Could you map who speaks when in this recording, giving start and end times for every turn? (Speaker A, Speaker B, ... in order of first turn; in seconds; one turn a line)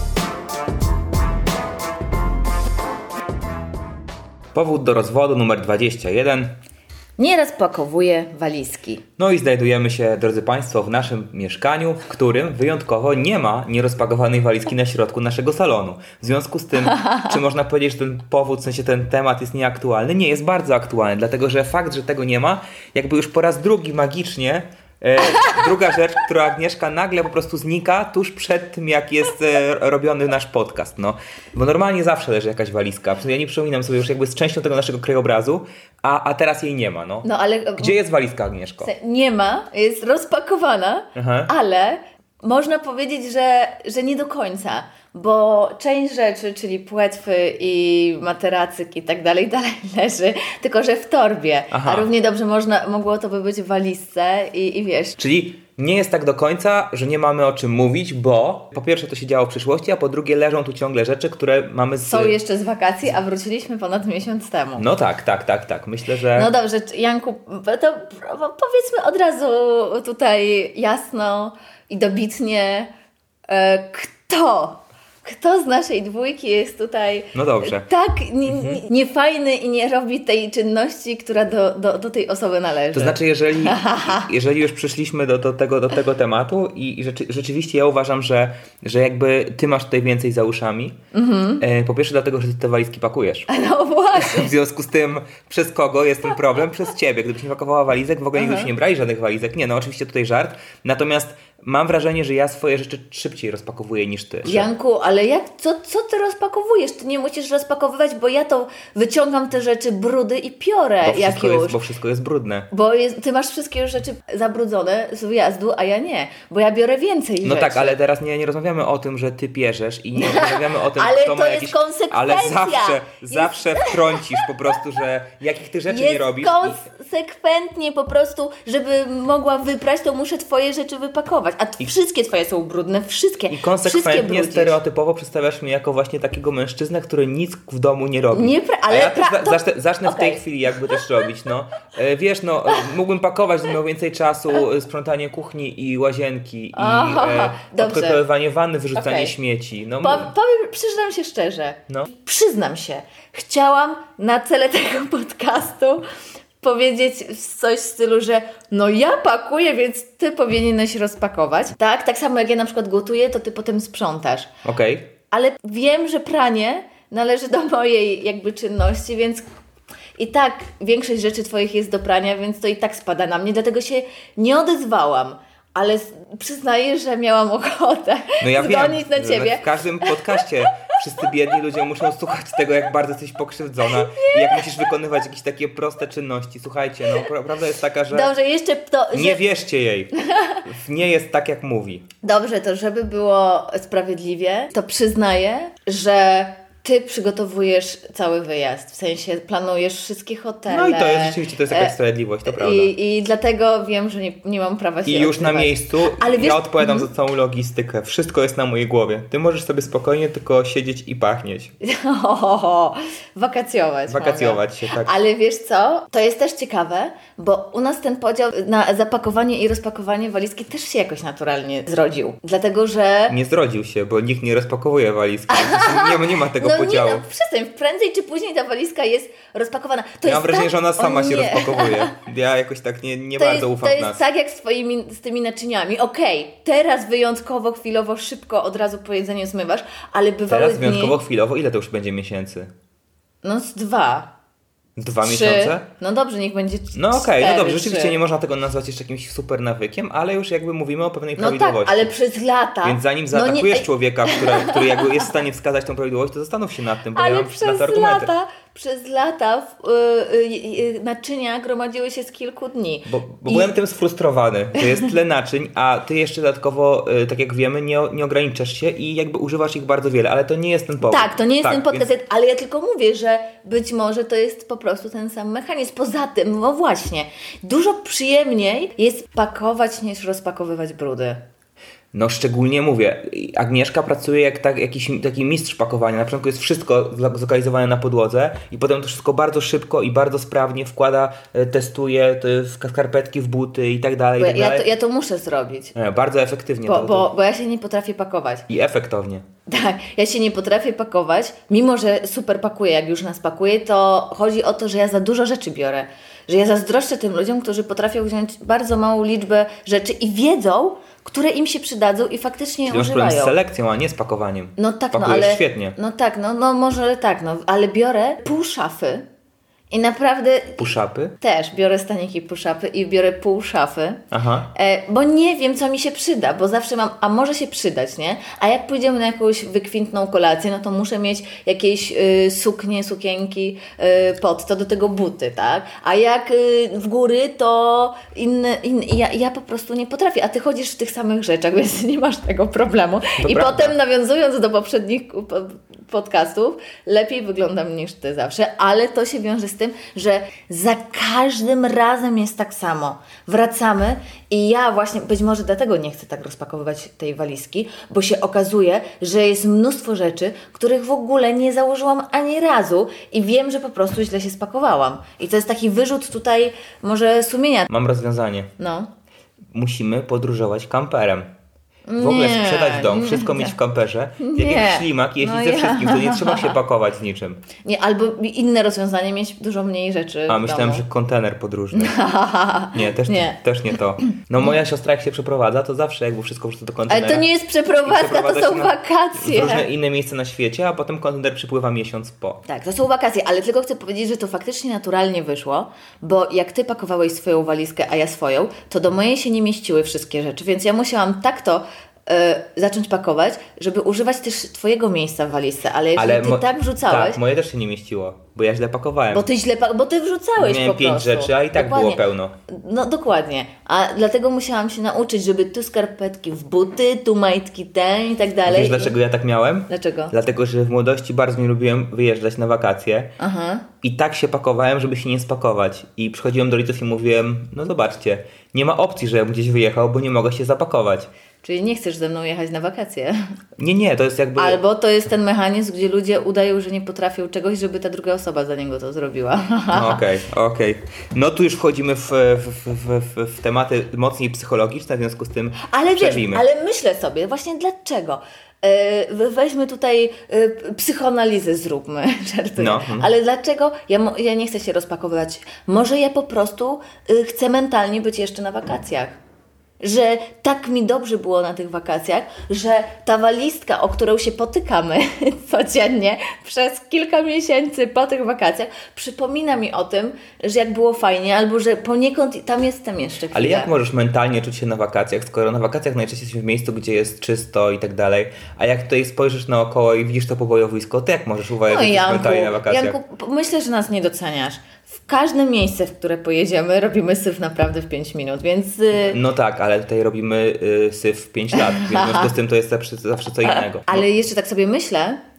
Speaker A: 4.5-6.6
Speaker B: 7.2-9.0
Speaker A: 9.2-37.3
Speaker B: 37.2-38.0
Speaker A: 37.8-38.9
Speaker B: 38.8-55.2
Speaker A: 41.1-41.5
Speaker A: 51.7-52.1
Speaker A: 55.2-62.4
Speaker B: 62.1-64.9
Speaker A: 64.8-66.5
Speaker B: 66.3-72.9
Speaker B: 73.5-84.3
Speaker A: 77.3-77.9
Speaker A: 78.5-78.8
Speaker A: 82.9-91.0
Speaker B: 91.1-91.6
Speaker A: 91.6-93.5
Speaker B: 93.5-94.5
Speaker A: 94.2-104.7
Speaker B: 98.4-98.7
Speaker B: 104.4-111.8
Speaker A: 111.0-112.7
Speaker B: 112.7-118.0
Speaker A: 117.4-126.8
Speaker B: 120.1-124.5
Speaker B: 125.9-134.8
Speaker A: 133.5-150.3
Speaker B: 138.3-140.4
Speaker B: 146.7-148.2
Speaker B: 148.9-149.3
Speaker B: 150.0-156.0
Speaker B: 156.6-164.5
Speaker A: 164.7-165.1
Speaker B: 165.3-169.4
Speaker B: 170.2-180.5
Speaker A: 178.4-188.3
Speaker B: 183.8-184.9
Speaker B: 188.1-189.4
Speaker A: 189.1-190.1
Speaker A: 190.6-192.0
Speaker B: 192.2-207.1
Speaker A: 200.7-202.9
Speaker A: 205.1-211.7
Speaker B: 211.8-223.4
Speaker A: 214.1-215.1
Speaker A: 223.3-227.2
Speaker B: 225.5-232.1
Speaker A: 230.2-234.2
Speaker B: 233.4-241.2
Speaker A: 240.5-242.7
Speaker B: 243.4-244.3
Speaker A: 245.0-245.8
Speaker B: 245.2-248.2
Speaker A: 246.9-252.1
Speaker B: 251.4-255.3
Speaker A: 252.8-258.3
Speaker B: 257.1-263.7
Speaker A: 263.1-272.1
Speaker B: 271.1-281.4
Speaker A: 282.1-294.9
Speaker B: 294.4-295.9
Speaker A: 295.9-297.3
Speaker B: 296.9-298.7
Speaker A: 298.7-299.4
Speaker B: 299.7-313.6
Speaker A: 312.9-316.0
Speaker B: 314.8-319.2
Speaker B: 319.9-320.9
Speaker A: 320.8-321.3
Speaker B: 321.4-324.2
Speaker A: 324.3-324.7
Speaker B: 324.7-367.9
Speaker A: 343.4-343.9
Speaker A: 367.9-368.7
Speaker B: 368.8-369.1
Speaker A: 369.7-371.5
Speaker B: 372.1-373.8
Speaker A: 372.2-377.6
Speaker B: 374.4-376.8
Speaker B: 377.9-381.0
Speaker A: 380.5-382.2
Speaker B: 381.9-383.6
Speaker A: 382.9-392.6
Speaker B: 384.2-384.8
Speaker B: 387.1-389.9
Speaker B: 392.7-407.4
Speaker A: 406.2-409.5
Speaker B: 409.3-419.2
Speaker A: 410.6-412.5
Speaker A: 418.7-423.3
Speaker B: 419.9-420.3
Speaker B: 423.4-423.9
Speaker A: 424.0-431.3
Speaker B: 431.6-433.4
Speaker A: 433.8-434.8
Speaker B: 434.6-440.2
Speaker A: 439.9-446.6
Speaker B: 445.8-459.4
Speaker A: 452.8-453.3
Speaker B: 460.0-473.9
Speaker A: 473.5-483.2
Speaker B: 481.9-489.4
Speaker A: 489.1-494.3
Speaker B: 491.7-492.5
Speaker B: 493.7-495.4